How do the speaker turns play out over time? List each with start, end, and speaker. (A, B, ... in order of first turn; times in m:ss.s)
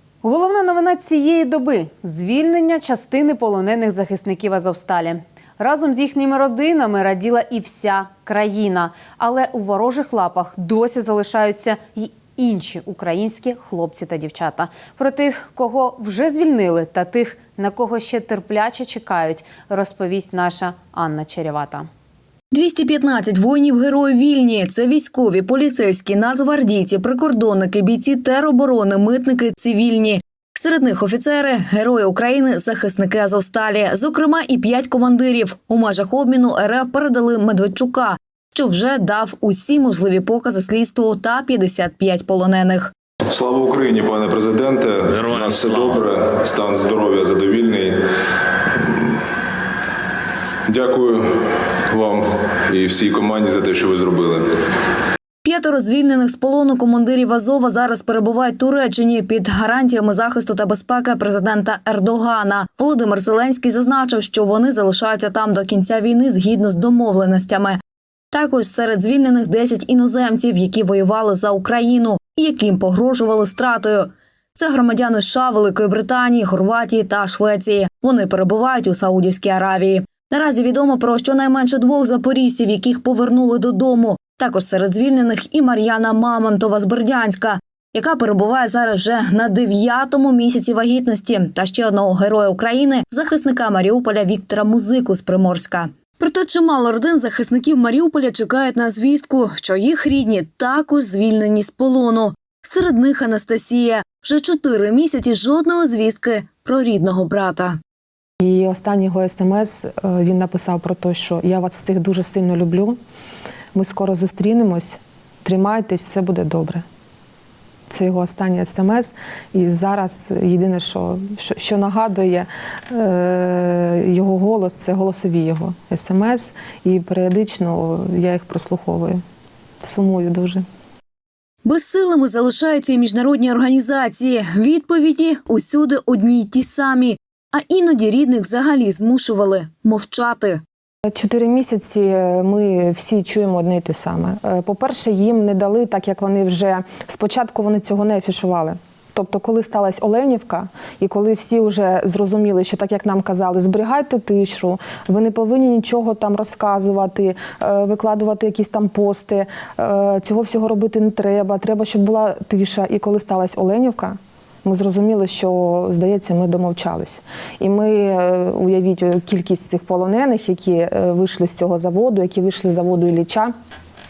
0:00.2-0:21.9 A
0:22.5-0:42.9 B
0:43.3-0:48.0 C
0:48.8-0:49.2 C
0:50.7-0:54.5 C
0:55.4-1:07.8 B
1:08.3-1:47.8 B
1:48.4-1:53.0 D
1:53.7-1:56.8 D
1:57.9-2:09.2 D
2:09.8-2:10.6 D
2:11.6-2:20.6 B
2:21.0-2:53.5 D